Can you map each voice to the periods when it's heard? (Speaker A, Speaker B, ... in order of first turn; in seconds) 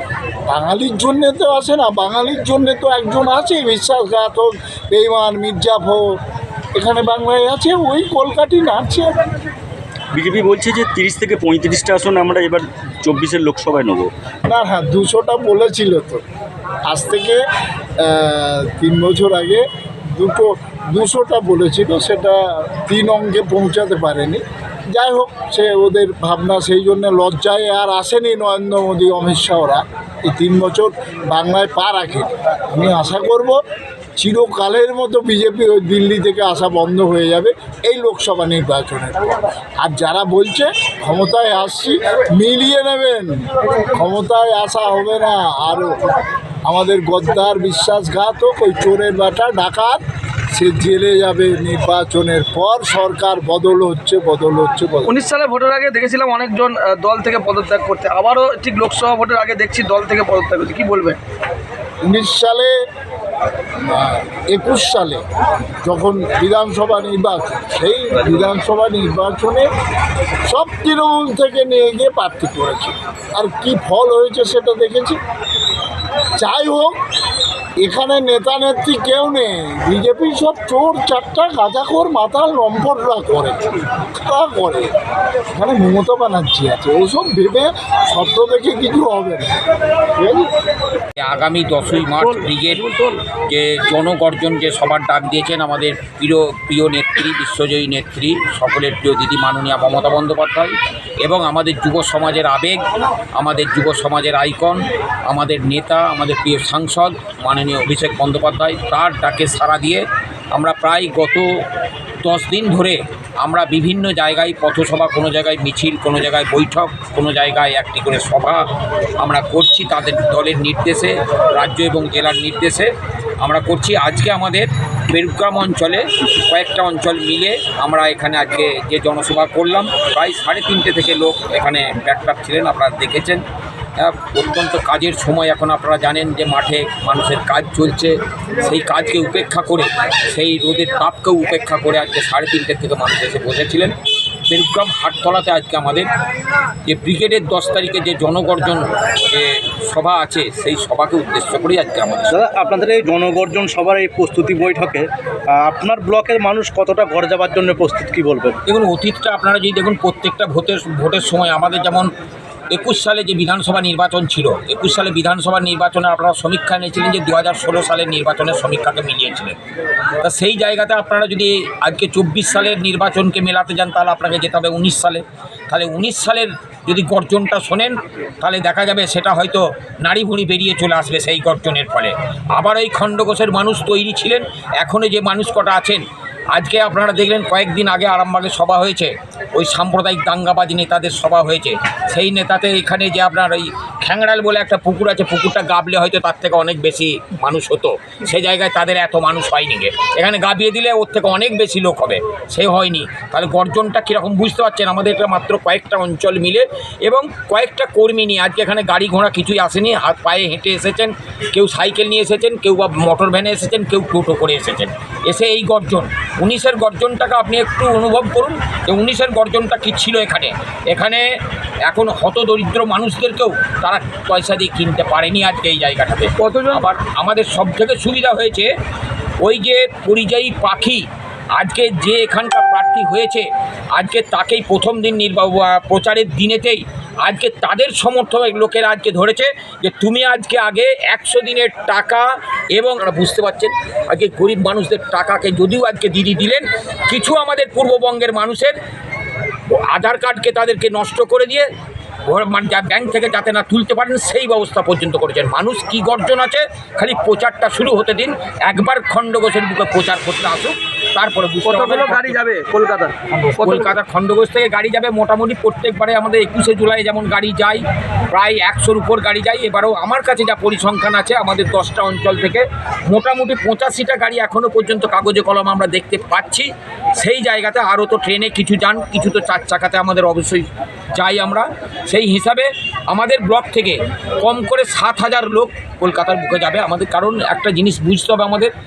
Speaker A: 0.5-6.2, 6.7-9.1, 14.5-16.2, 16.9-17.4, 18.0-33.6, 34.2-39.3, 39.8-46.0, 46.6-50.0, 50.5-55.2, 62.0-62.7, 63.9-65.2, 65.8-69.7, 70.5-75.2, 76.4-76.9, 77.8-84.9, 85.5-89.6, 90.2-90.5
Speaker B: 10.1-14.1
Speaker C: 55.1-61.2, 226.4-226.8, 261.6-263.9
Speaker D: 91.2-102.8, 103.3-111.5, 112.2-118.6, 119.2-133.4, 134.0-143.9, 144.5-146.1, 146.8-152.3, 158.7-162.1, 162.7-169.6, 170.2-186.0, 186.5-221.2, 221.9-228.7, 229.4-231.0, 231.6-248.8, 249.7-251.7, 252.3-262.4, 263.3-288.7
Speaker E: 152.3-158.6